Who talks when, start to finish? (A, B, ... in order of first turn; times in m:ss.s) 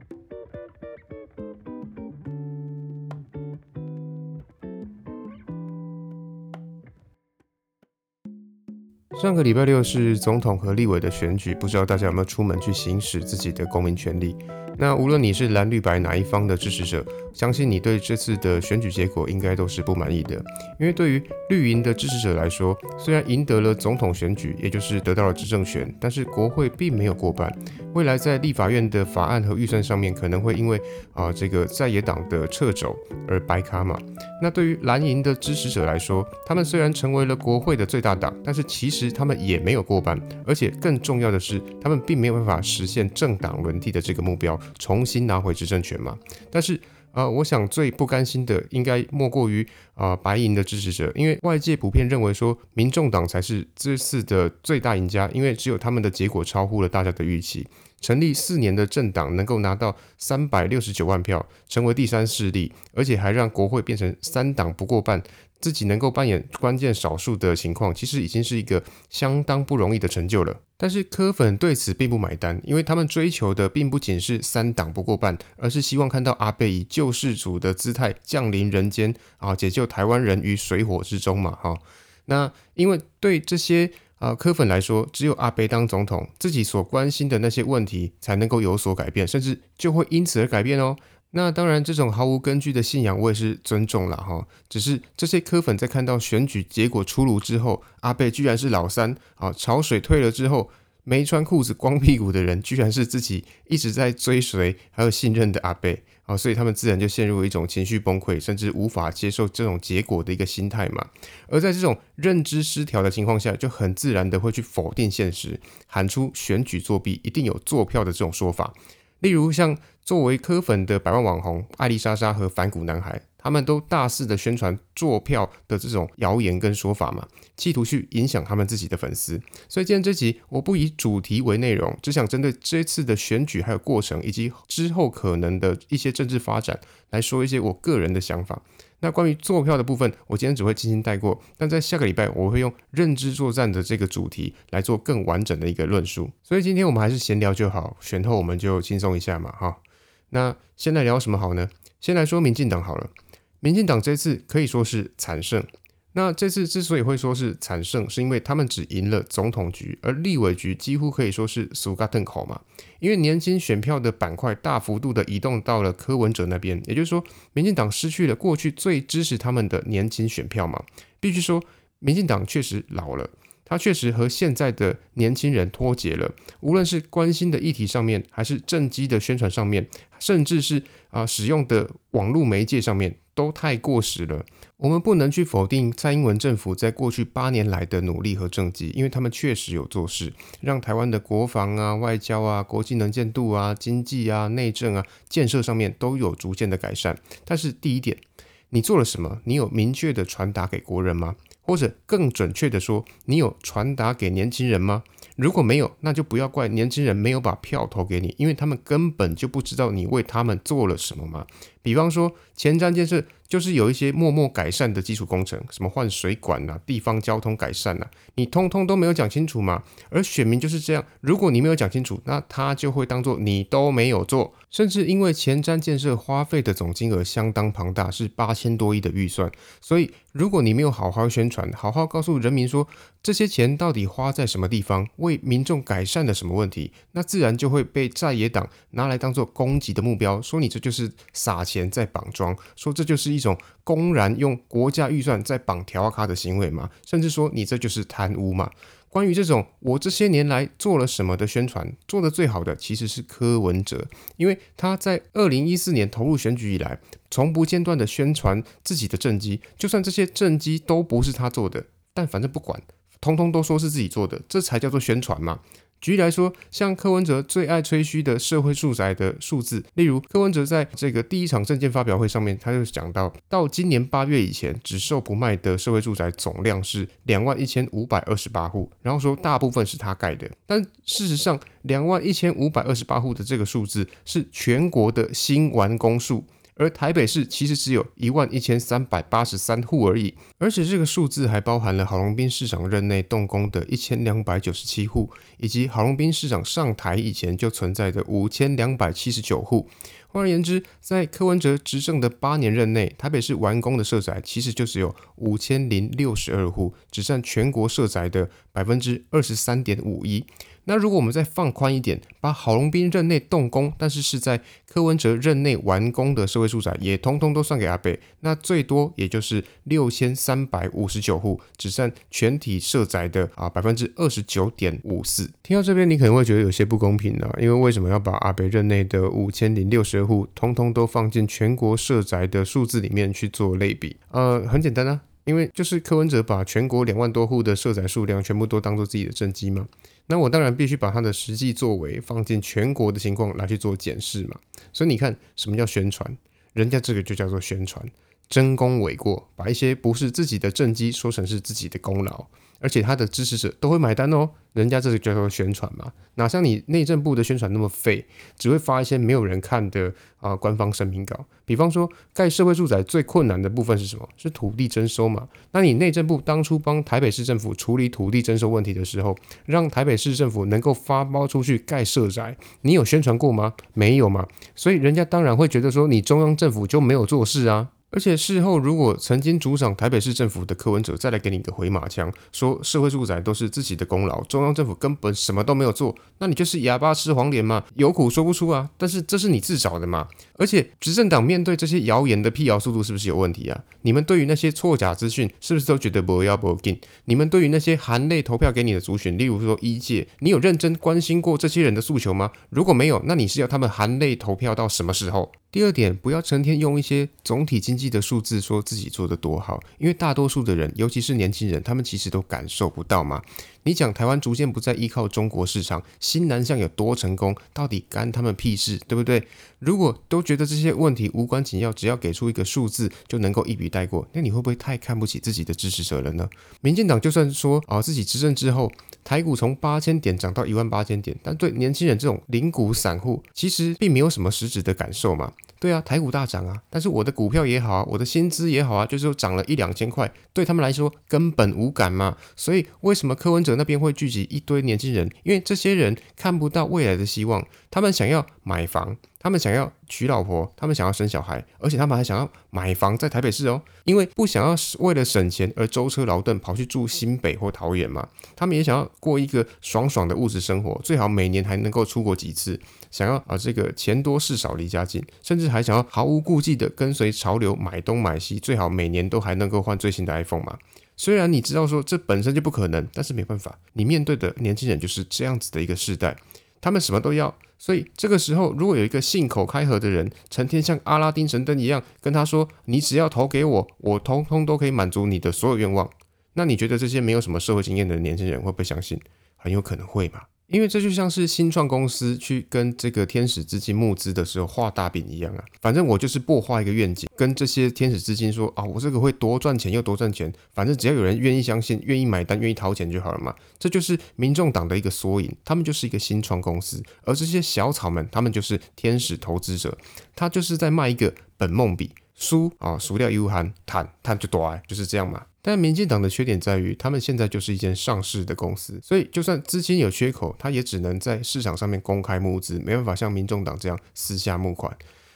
0:09.1-8:45.0 A